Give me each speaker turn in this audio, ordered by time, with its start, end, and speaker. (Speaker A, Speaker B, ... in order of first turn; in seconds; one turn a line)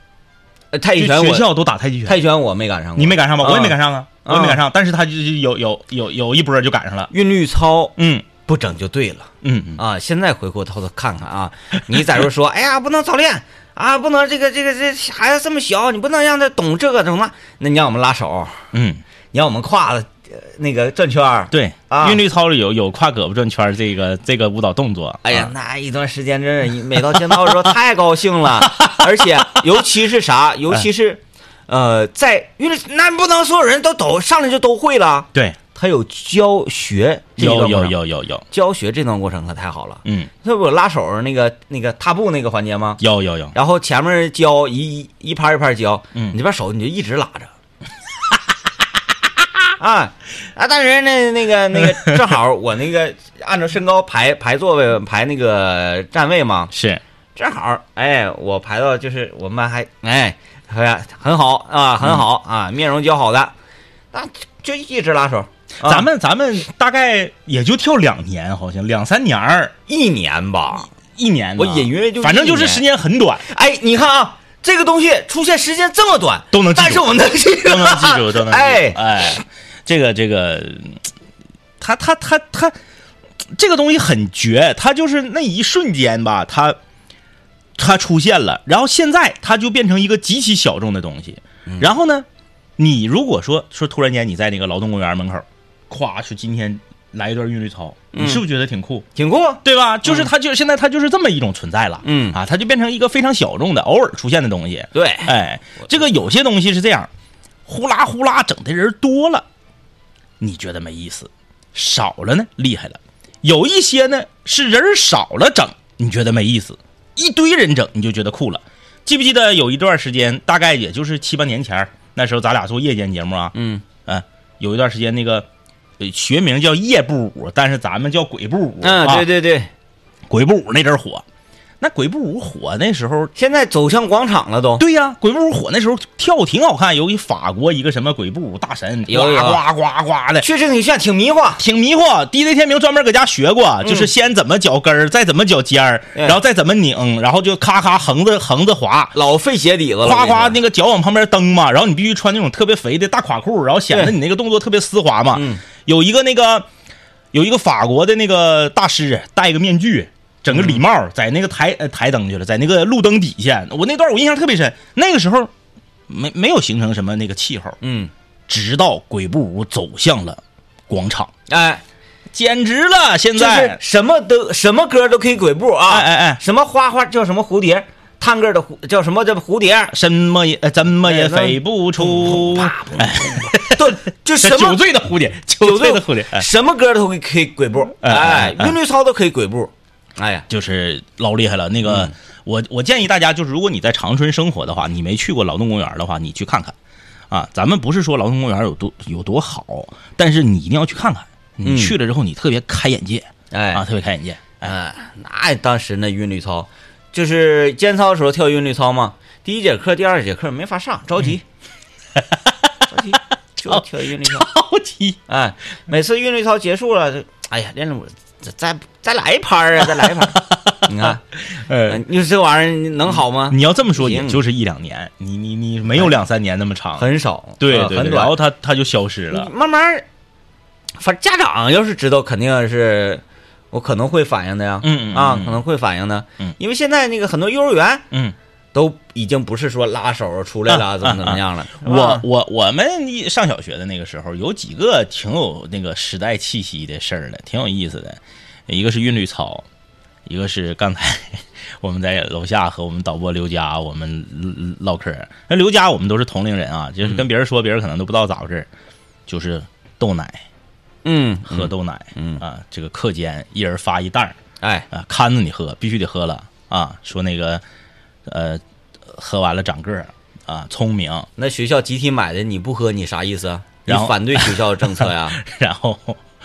Speaker A: 0.7-1.5
Speaker B: 0.9-2.2
Speaker A: 2.0-4.6
Speaker B: 3.0-7.1
Speaker A: 7.1-18.6
Speaker B: 8.0-8.2
Speaker B: 9.4-9.8
Speaker B: 18.7-19.0
Speaker A: 19.3-22.2
Speaker B: 21.5-25.5
Speaker A: 25.2-38.0
Speaker B: 27.2-27.5
Speaker B: 28.7-29.6
Speaker B: 37.4-38.4
Speaker A: 38.5-43.0
Speaker B: 40.0-40.3
Speaker B: 43.0-43.5
Speaker A: 43.5-47.5
Speaker A: 49.8-56.7
Speaker B: 56.7-57.0
Speaker A: 57.4-63.5
Speaker A: 64.1-66.1
Speaker B: 65.8-69.7
Speaker A: 69.9-70.9
Speaker B: 71.1-73.4
Speaker A: 71.6-72.8
Speaker A: 73.5-79.0
Speaker B: 76.5-81.0
Speaker B: 81.8-82.8
Speaker B: 83.5-86.8
Speaker B: 87.8-92.3
Speaker B: 92.8-99.0
Speaker A: 98.1-98.4
Speaker A: 99.1-100.3
Speaker B: 99.6-107.1
Speaker A: 102.0-102.4
Speaker A: 104.9-105.9
Speaker B: 107.7-109.5
Speaker B: 110.4-125.5
Speaker A: 123.5-123.8
Speaker B: 126.0-129.3
Speaker A: 128.8-129.7
Speaker B: 130.3-131.2
Speaker B: 131.8-133.3
Speaker A: 133.3-134.8
Speaker B: 134.8-140.4
Speaker A: 139.1-139.6
Speaker A: 140.4-141.6
Speaker B: 141.6-149.2
Speaker A: 143.8-144.1
Speaker A: 149.1-150.6
Speaker B: 150.0-156.7
Speaker A: 155.3-155.6
Speaker B: 157.3-165.5
Speaker A: 160.5-160.8
Speaker B: 166.1-167.8
Speaker A: 167.8-168.1
Speaker B: 168.5-171.3
Speaker A: 171.5-171.8
Speaker B: 172.3-173.8
Speaker A: 173.3-179.9
Speaker B: 175.9-176.4
Speaker B: 179.9-186.4
Speaker A: 181.0-184.8
Speaker A: 185.6-190.4
Speaker B: 188.0-188.7
Speaker B: 190.5-196.7
Speaker A: 191.8-192.1
Speaker B: 197.3-204.7
Speaker A: 201.6-201.9
Speaker A: 203.5-203.8
Speaker A: 204.6-211.4
Speaker B: 212.2-212.5
Speaker A: 212.9-214.5
Speaker B: 213.7-215.2
Speaker A: 215.3-221.2
Speaker B: 220.0-222.0
Speaker A: 221.8-224.4
Speaker B: 223.3-227.1
Speaker A: 226.9-228.4
Speaker B: 227.6-229.5
Speaker A: 229.3-230.0
Speaker A: 231.0-238.0
Speaker B: 234.8-235.6
Speaker A: 238.7-242.2
Speaker B: 240.7-249.6
Speaker B: 250.2-258.7
Speaker B: 259.3-260.4
Speaker A: 261.0-262.4
Speaker B: 261.5-264.4
Speaker A: 264.6-264.9
Speaker B: 264.9-267.6
Speaker B: 268.3-271.3
Speaker A: 271.4-275.4
Speaker B: 273.9-276.2